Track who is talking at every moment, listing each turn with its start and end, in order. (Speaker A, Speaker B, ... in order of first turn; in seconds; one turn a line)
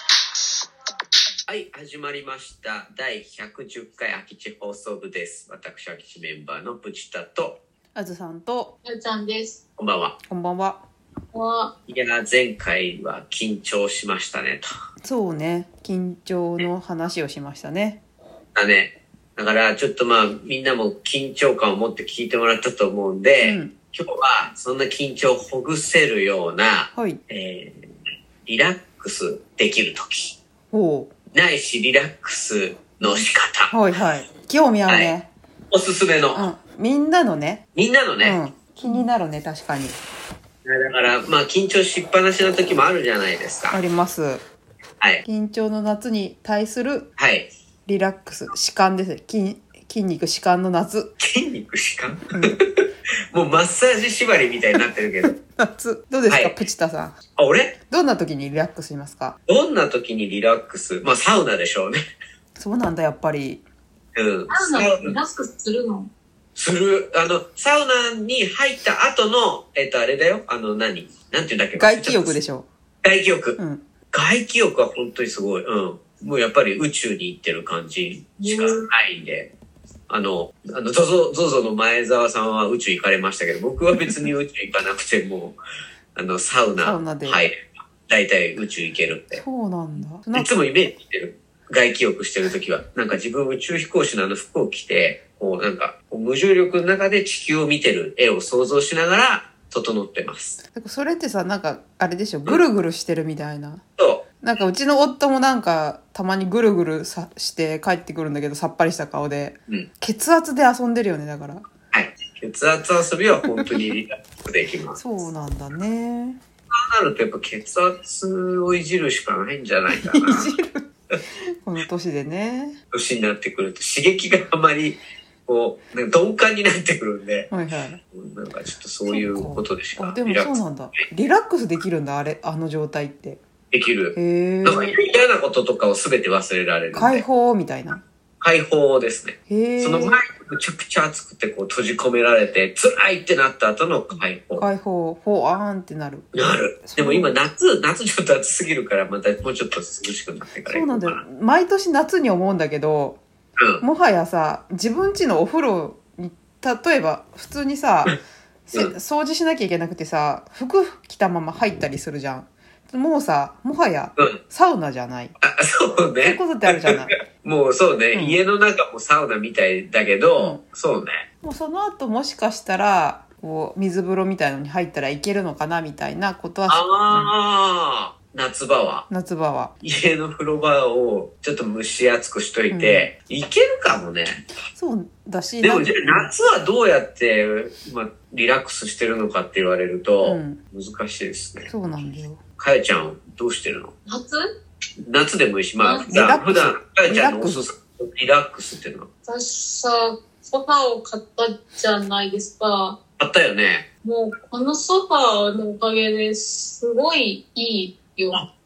Speaker A: 1.5-7.6
Speaker B: 8.0-8.7
Speaker C: 8.8-9.6
Speaker A: 9.8-10.2
Speaker B: 10.3-10.8
Speaker C: 11.3-11.7
Speaker A: 11.9-14.7
Speaker B: 15.0-18.0
Speaker A: 18.6-27.9
Speaker B: 23.4-23.7
Speaker B: 26.9-27.2
Speaker A: 28.5-30.4
Speaker B: 30.7-31.1
Speaker A: 31.3-33.7
Speaker B: 33.7-35.3
Speaker A: 34.9-35.1
Speaker A: 35.7-36.4
Speaker B: 36.3-37.6
Speaker A: 37.8-38.4
Speaker B: 38.2-40.0
Speaker A: 40.6-43.8
Speaker B: 43.7-44.4
Speaker B: 45.2-47.1
Speaker A: 47.2-47.5
Speaker B: 47.9-51.1
Speaker A: 51.2-52.4
Speaker B: 52.3-52.6
Speaker A: 53.3-55.4
Speaker B: 55.2-57.2
Speaker A: 56.3-56.6
Speaker A: 57.4-57.8
Speaker B: 57.8-59.4
Speaker A: 59.5-62.0
Speaker B: 62.6-63.6
Speaker A: 64.2-65.2
Speaker C: 64.5-66.1
Speaker A: 66.6-72.4
Speaker B: 71.8-72.7
Speaker A: 73.0-73.6
Speaker B: 73.6-73.8
Speaker A: 74.1-79.5
Speaker C: 78.4-78.8
Speaker A: 80.1-85.6
Speaker A: 86.2-89.4
Speaker B: 86.8-87.4
Speaker B: 89.3-90.5
Speaker A: 90.3-100.6
Speaker B: 100.7-103.8
Speaker A: 104.0-104.3
Speaker B: 104.4-111.6
Speaker A: 111.9-115.0
Speaker B: 115.0-116.4
Speaker A: 116.7-120.5
Speaker B: 119.9-120.9
Speaker B: 121.6-122.8
Speaker A: 122.9-127.5
Speaker B: 127.5-128.0
Speaker A: 128.1-130.6
Speaker B: 129.1-133.4
Speaker A: 133.7-137.2
Speaker B: 134.2-135.0
Speaker B: 136.9-138.0
Speaker A: 138.4-144.7
Speaker B: 139.5-140.2
Speaker B: 144.1-147.4
Speaker A: 146.3-151.2
Speaker B: 150.7-153.2
Speaker A: 153.6-153.8
Speaker B: 153.8-165.3
Speaker A: 165.4-171.2
Speaker B: 166.2-167.2
Speaker B: 168.1-168.4
Speaker B: 170.4-170.6
Speaker B: 171.4-177.3
Speaker A: 176.7-179.1
Speaker B: 179.1-179.7
Speaker A: 179.8-184.4
Speaker B: 182.7-183.1
Speaker B: 184.7-186.3
Speaker A: 185.6-191.7
Speaker B: 190.2-190.6
Speaker B: 191.7-192.4
Speaker A: 192.6-193.9
Speaker C: 194.1-194.5
Speaker A: 195.0-199.1
Speaker C: 195.8-196.2
Speaker B: 196.1-197.7
Speaker C: 199.3-203.0
Speaker A: 203.2-203.9
Speaker C: 204.0-208.5